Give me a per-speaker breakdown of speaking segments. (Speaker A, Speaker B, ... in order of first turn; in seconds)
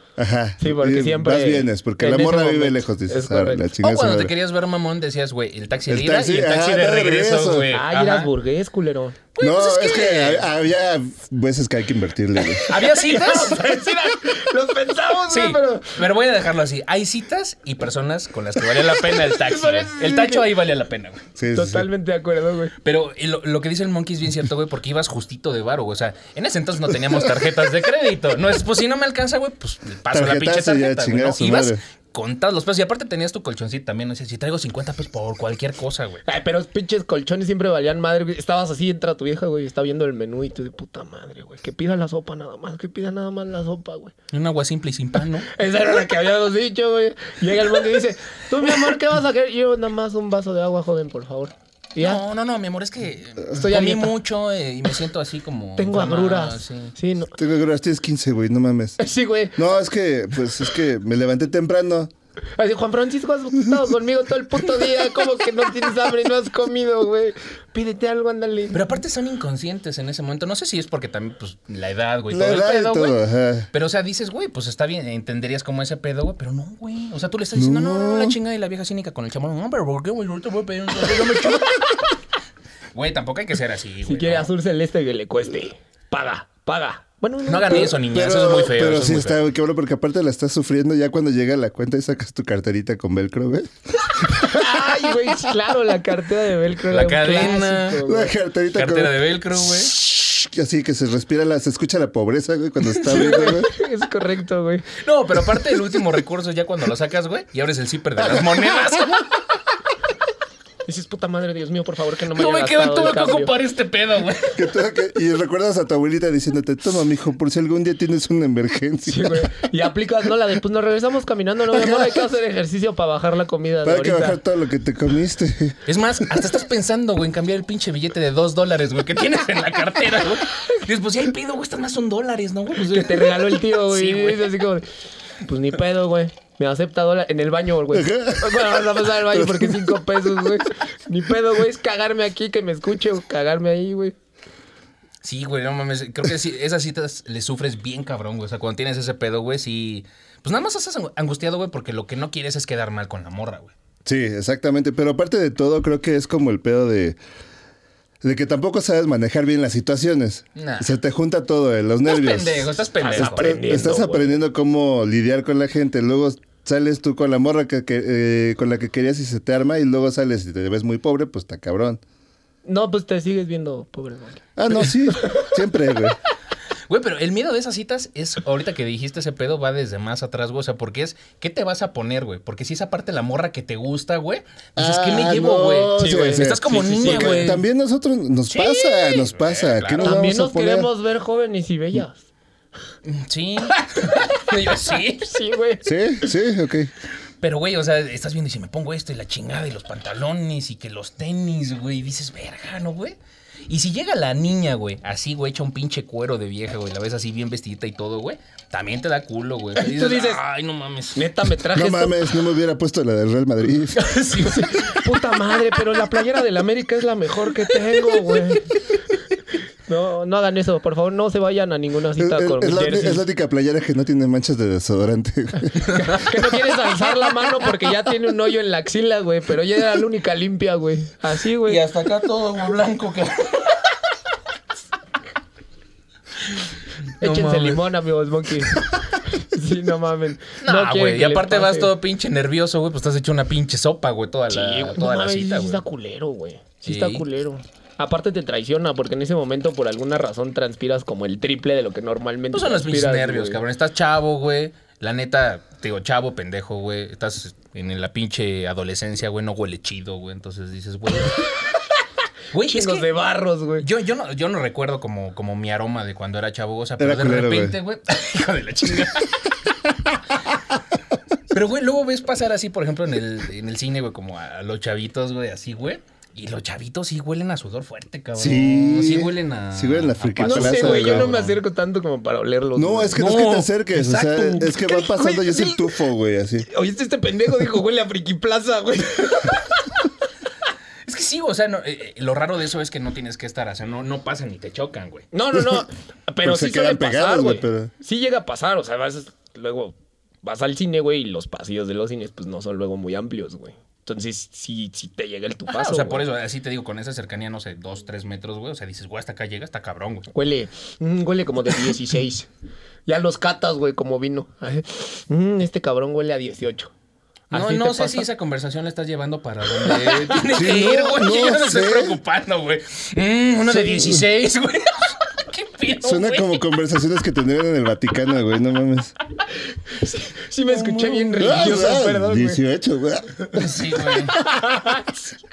Speaker A: 0.2-4.3, 5.9-7.7, 9.4-12.7, 21.4-21.9, 30.1-31.8, 57.4-59.0, 59.5-62.1, 72.3-73.7, 77.5-78.3, 87.7-94.4, 98.0-99.2, 100.0-103.7, 114.5-119.5, 121.7-122.2, 123.8-125.8, 137.9-140.0, 154.0-157.2, 158.2-172.0, 174.6-176.2, 184.8-190.9, 195.8-196.9, 211.7-214.0, 222.2-225.9, 267.0-267.8, 278.4-281.3, 282.7-286.7, 295.5-295.8, 296.4-297.9, 320.5-322.2, 323.7-324.2, 326.0-329.1, 331.4-333.7
Speaker B: 0.6-3.7, 7.7-9.2, 12.7-16.0, 19.1-20.5, 21.5-22.7, 36.2-44.1, 45.5-52.2, 53.5-54.1, 55.8-57.3, 59.0-59.6, 62.6-68.9, 84.0-88.0, 94.3-98.3, 103.1-104.9, 110.8-113.5, 119.0-124.4, 132.9-134.8, 135.4-144.1, 163.0-164.4, 172.6-175.5, 185.9-187.6, 190.0-192.2, 195.2-195.9, 209.8-210.4, 211.1-212.3, 214.4-218.8, 219.9-223.2, 225.8-231.8, 237.2-241.9, 244.5-253.6, 262.6-263.9, 280.4-283.2, 284.6-286.0, 286.7-289.8, 295.3-306.2, 310.3-312.5, 313.1-316.9, 317.5-318.2, 319.9-320.4, 329.9-332.6, 334.3-335.4
Speaker C: 3.8-8.3, 9.4-10.5, 12.5-13.6, 15.3-21.2, 22.8-36.2, 44.3-45.5, 52.0-56.9, 68.7-73.2, 73.7-82.1, 82.9-84.5, 87.5-89.4, 96.9-98.0, 98.7-100.0, 105.0-109.3, 112.3-114.6, 125.8-134.6, 145.2-153.7, 160.6-160.9, 162.1-163.8, 176.9-187.6, 188.5-190.2, 193.0-195.3, 197.4-203.2, 203.7-211.3, 213.9-215.1, 231.6-233.9, 237.2-237.8, 240.6-245.8, 246.8-247.2, 252.5-261.5, 262.5-263.1, 263.8-269.5, 271.5-281.6, 283.1-284.8, 291.1-295.3, 305.7-310.3, 317.5-326.6, 330.7-331.7, 333.5-334.4